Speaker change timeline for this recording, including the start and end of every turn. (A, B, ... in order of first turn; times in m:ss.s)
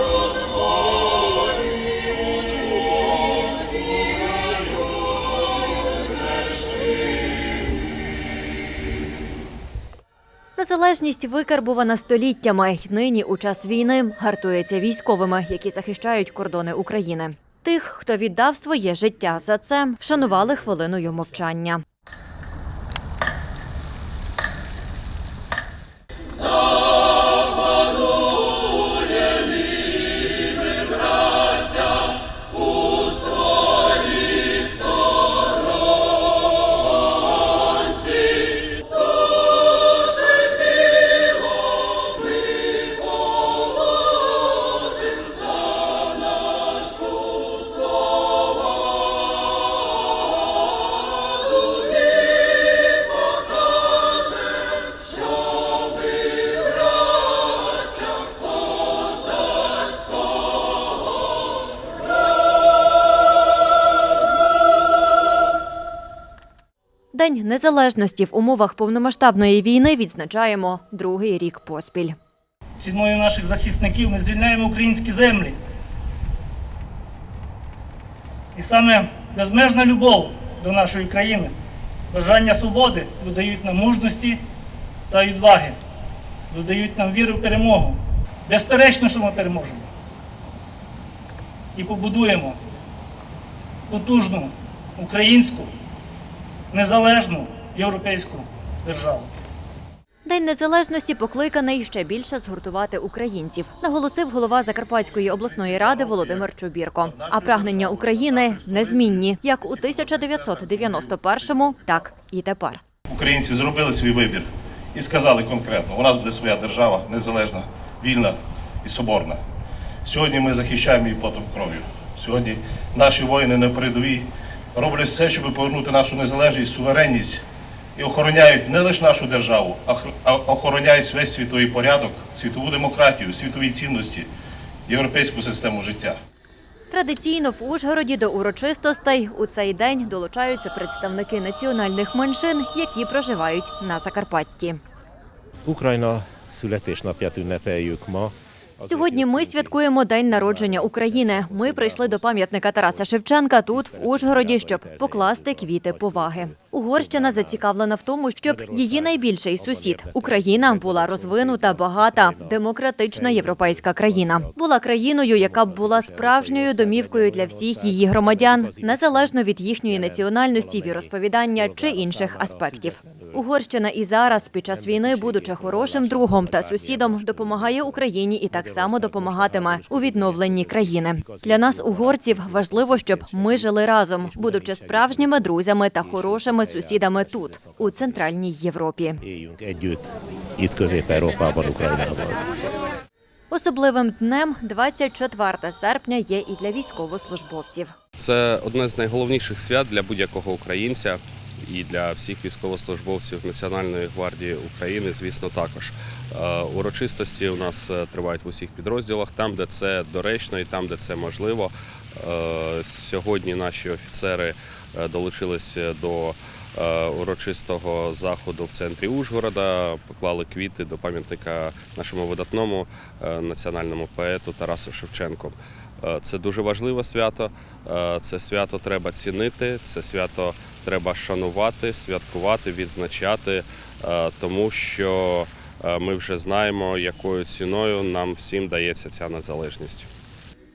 0:10.6-0:21.8 A
1:07.1-1:12.2 A
1:12.8-1:15.6 B
1:18.6-1:21.5 B
1:22.1-1:24.4 B
1:25.1-1:25.8 B
1:26.5-1:29.9 B
1:31.8-1:32.6 B
1:33.9-1:35.7 B
1:36.7-1:39.3 B
1:40.2-1:52.8 A
1:45.1-1:46.5 C
1:47.0-1:51.9 C
1:53.1-1:59.4 C
2:00.0-2:07.4 C
2:08.0-2:14.3 C
2:14.9-2:16.2 C
2:16.9-2:24.8 A
2:25.6-2:33.1 D
2:28.8-3:09.2 A
2:33.7-2:37.6 D
2:38.4-2:44.6 D
2:45.3-2:53.5 D
2:54.5-3:08.3 D
3:09.2-3:12.5 D
3:13.5-3:17.9 A
3:18.2-4:00.1 E